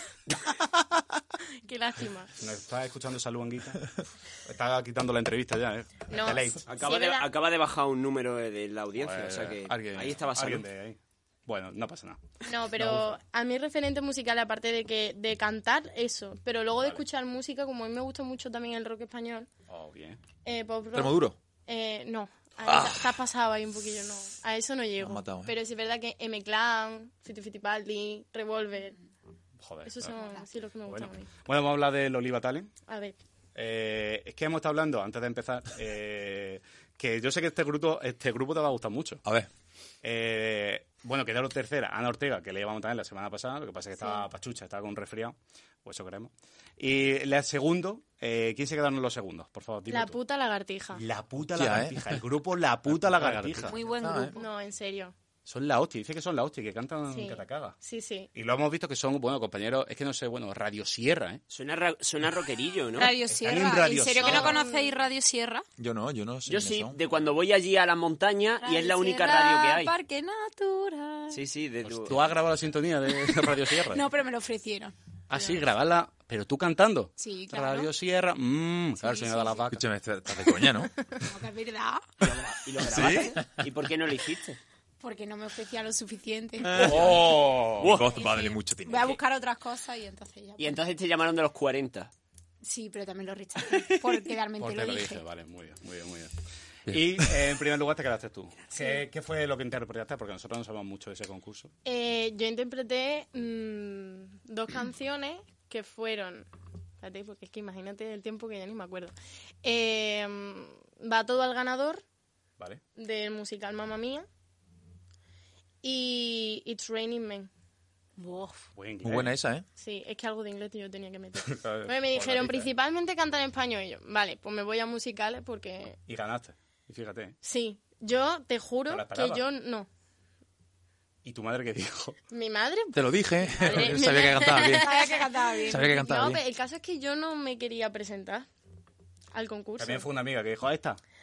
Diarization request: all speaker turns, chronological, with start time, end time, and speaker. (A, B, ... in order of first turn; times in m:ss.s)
0:01.6-0:02.3 A
0:02.4-0:06.7 B
0:06.1-0:07.3 A
0:06.7-0:10.6 C
0:09.0-0:12.2 B
0:12.4-0:19.5 A
0:12.8-0:13.2 B
0:19.7-0:20.2 B
0:20.4-0:29.0 A
0:20.9-0:21.4 D
0:22.6-0:23.2 D
0:25.0-0:25.5 D
0:29.6-0:30.2 B
0:29.8-0:31.3 A
0:30.8-0:32.7 B
0:32.9-0:33.2 A
0:33.5-0:39.2 B
0:39.2-0:39.5 D
0:40.0-0:50.2 B
0:44.0-0:44.2 A
0:49.9-0:51.0 A
0:50.9-0:53.9 B
0:51.5-0:52.0 D
0:52.9-0:54.3 D
0:53.7-0:54.3 E
0:54.3-0:55.1 A
0:55.4-0:57.8 B
0:57.1-0:58.3 A
0:58.3-1:01.4 B
1:01.5-1:03.1 C
1:03.0-1:05.6 E
1:03.2-1:04.6 B
1:04.2-1:05.0 A
1:05.8-1:07.0 D
1:06.5-1:09.9 C
1:08.6-1:11.4 E
1:11.3-1:12.3 C
1:11.8-1:14.0 B
1:13.9-1:15.6 E
1:15.3-1:19.8 B
1:17.2-1:17.9 E
1:19.0-1:19.7 E
1:19.7-1:20.9 D
1:21.2-1:22.0 E
1:22.2-1:24.6 C
1:22.8-1:23.3 D
1:22.9-1:23.2 B
1:25.0-1:26.9 E
1:26.7-1:29.2 D
1:26.7-1:28.0 B
1:26.8-1:27.1 C
1:27.8-1:28.2 C
1:28.1-1:30.8 E
1:30.6-1:32.1 C
1:32.6-1:35.2 E
1:34.6-1:36.3 B
1:36.9-1:41.7 B
1:36.9-1:37.3 D
1:41.8-1:46.5 A
1:47.0-1:49.1 A
1:49.6-1:52.0 A
1:52.9-1:54.2 A
1:55.8-1:57.5 A
1:58.2-1:58.6 E
1:58.7-1:59.4 B
1:59.0-1:59.6 D
1:59.8-2:06.0 A
2:01.4-2:02.7 B
2:06.1-2:07.3 B
2:07.4-2:09.9 A
2:08.9-2:09.4 B
2:11.2-2:12.2 B
2:12.3-2:18.5 A
2:12.9-2:14.9 D
2:13.6-2:14.0 B
2:14.7-2:15.8 E
2:15.6-2:16.4 D
2:19.3-2:20.1 A
2:19.8-2:21.0 B